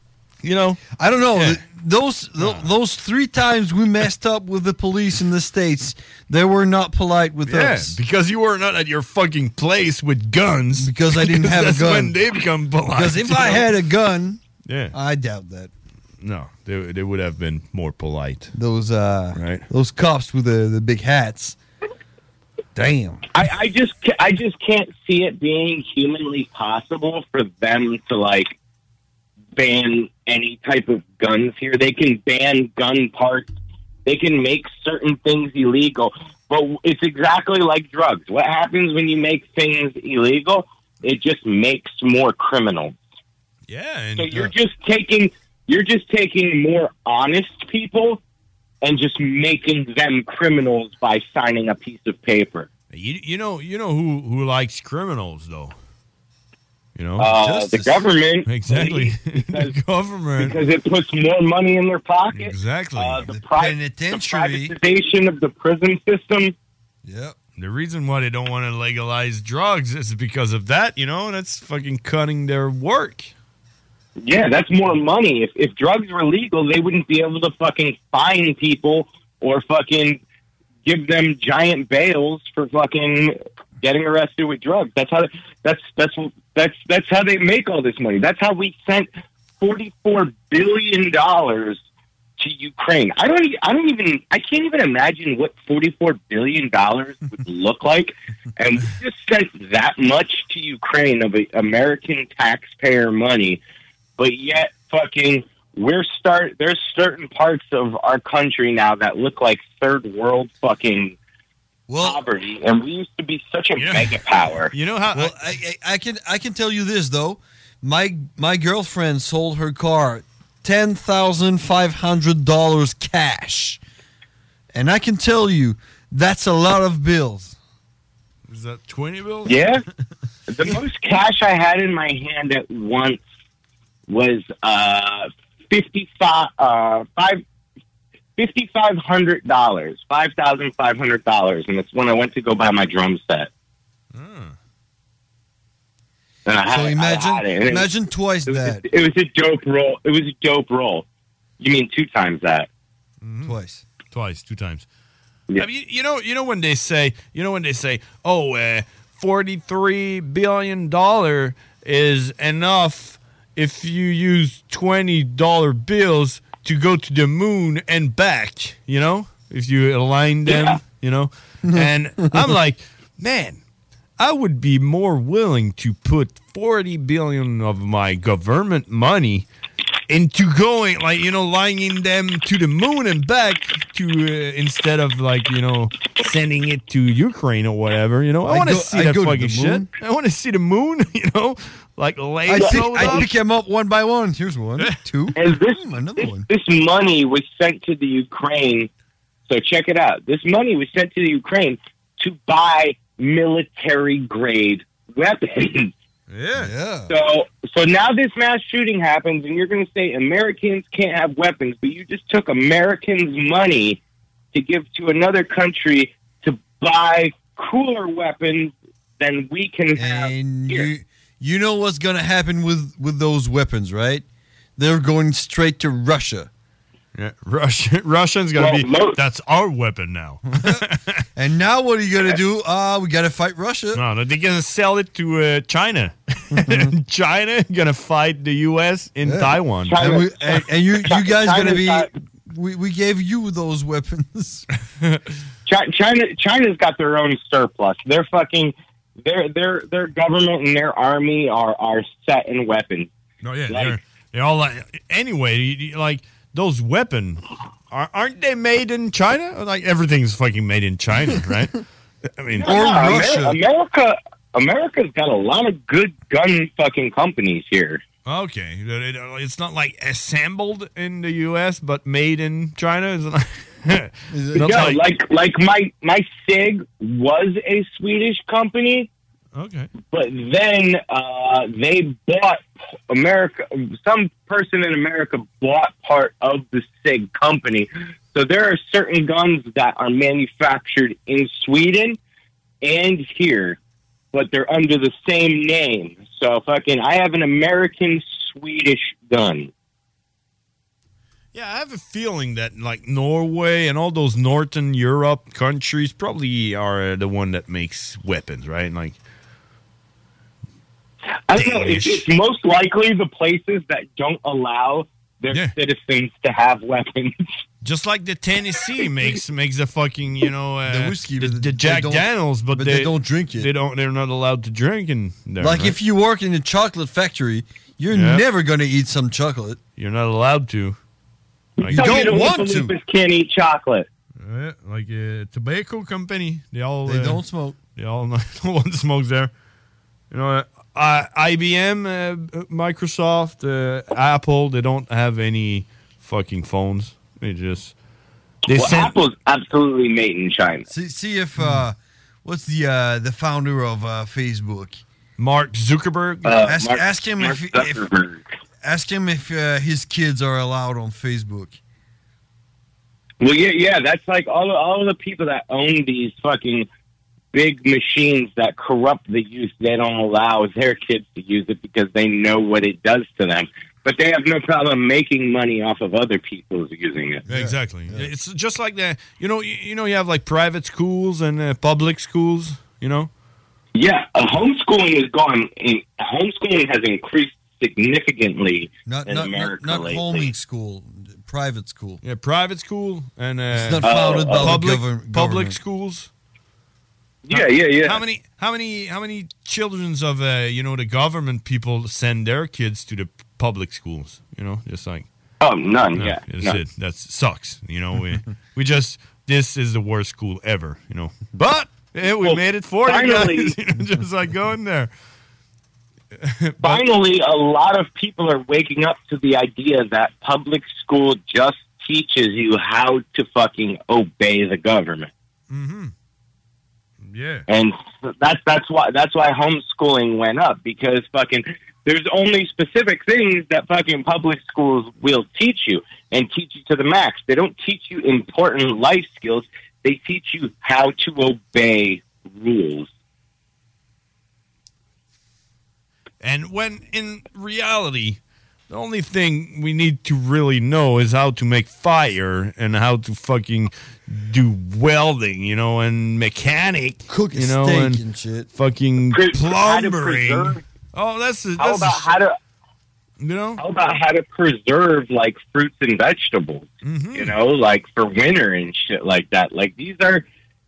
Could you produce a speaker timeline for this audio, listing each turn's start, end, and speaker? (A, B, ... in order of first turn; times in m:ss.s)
0:00.4-0:01.6 A
0:00.9-0:08.0 B
0:02.4-0:02.7 A
0:07.5-0:13.7 A
0:10.8-0:12.2 B
0:12.9-0:14.4 B
0:14.6-0:14.9 A
0:14.9-0:15.7 B
0:16.2-0:18.5 A
0:18.5-0:21.6 B
0:19.4-0:19.6 A
0:22.7-0:23.2 B
0:23.3-0:28.5 C
0:29.6-0:33.5 C
0:34.0-0:43.0 C
0:43.7-0:44.5 A
0:44.2-0:48.2 C
0:48.8-0:52.7 C
0:52.9-0:55.7 A
0:57.0-0:57.4 A
0:57.2-0:59.7 C
0:57.2-0:58.0 B
0:58.5-1:00.6 A
1:00.4-1:06.5 C
1:02.3-1:03.3 A
1:03.3-1:04.7 B
1:07.0-1:07.4 B
1:07.6-1:13.3 A
1:14.2-1:20.2 C
1:20.8-1:31.8 C
1:32.4-1:43.6 C
1:44.2-1:51.2 C
1:51.9-1:52.2 B
1:52.0-1:54.7 C
1:53.8-1:54.2 A
1:54.7-1:55.4 A
1:55.1-2:03.8 B
2:04.7-2:07.6 B
2:08.5-2:09.7 A
2:09.5-2:09.8 C
2:10.5-2:13.2 C
2:14.1-2:17.4 C
2:18.4-2:23.5 C
2:24.1-2:24.5 A
2:26.4-2:27.9 C
2:26.7-2:28.8 B
2:28.4-2:31.0 C
2:31.6-2:32.7 C
2:33.2-2:33.5 A
2:33.4-2:33.8 B
2:34.1-2:34.8 A
2:35.6-2:53.6 A
2:50.5-2:50.8 C
2:51.6-2:52.5 B
2:54.2-2:59.5 A
3:00.1-3:13.3 A
3:08.4-3:09.9 B
3:12.5-3:16.5 B
3:12.6-3:13.2 C
3:15.4-3:18.9 C
3:19.5-3:25.9 C
3:26.3-3:26.7 A
3:26.6-3:27.1 B
3:27.1-3:34.0 C
3:34.5-3:40.9 C
3:40.0-3:44.2 B
3:44.8-3:46.5 B
3:47.2-3:51.2 A
3:48.6-3:49.2 C
3:50.6-3:50.8 B
3:51.3-3:54.0 B
3:53.9-4:00.0 A
3:56.5-3:56.9 B
3:59.2-4:04.7 B
3:59.9-4:02.1 C
4:05.6-4:13.1 C
4:13.4-4:21.8 A
4:13.7-4:14.0 C
4:22.4-4:23.4 A
4:22.6-4:23.6 B
4:22.6-4:28.0 C
4:28.2-4:35.0 A
4:34.3-4:35.0 B
4:34.6-4:39.1 C
4:39.5-4:39.9 A
4:40.0-4:52.2 C
4:52.8-4:53.8 C
4:54.3-4:59.7 C
5:01.5-5:09.2 A
5:11.5-5:17.3 C
5:11.5-5:12.2 A
5:17.8-5:26.0 A
5:20.8-5:23.7 B
5:25.6-5:29.8 B
5:28.1-5:28.4 A
5:30.0-5:31.0 A
5:31.8-5:34.1 C
5:31.8-5:32.6 A
5:31.8-5:32.9 B
5:34.4-5:37.4 A
5:37.0-5:37.8 B
5:38.0-5:39.5 A
5:40.3-5:47.9 A
5:48.7-5:50.8 C
5:48.7-5:49.2 A
5:50.9-5:55.0 B
5:55.4-5:56.7 A
5:56.4-5:58.4 C
5:56.6-5:58.0 B
5:58.8-6:01.8 B
6:03.4-6:06.9 C
6:07.5-6:17.4 C
6:17.4-6:18.3 B
6:17.5-6:23.3 A
6:24.0-6:30.5 C
6:29.0-6:32.2 B
6:32.2-6:36.3 A
6:33.7-6:35.7 B
6:34.0-6:34.7 C
6:37.4-6:38.2 C
6:37.5-6:45.3 A
6:45.6-6:46.8 C
6:46.1-6:55.1 A
6:52.4-6:53.7 C
6:56.4-6:57.0 A
6:56.8-7:05.3 C
7:05.7-7:06.1 A
7:07.3-7:07.6 A
7:07.7-7:23.1 C
7:26.4-7:38.2 A
7:37.3-7:38.7 B
7:38.7-7:42.3 A
7:39.3-7:40.8 C
7:41.8-7:42.6 C
7:43.4-7:43.8 A
7:43.8-7:50.4 C
7:47.0-7:47.5 A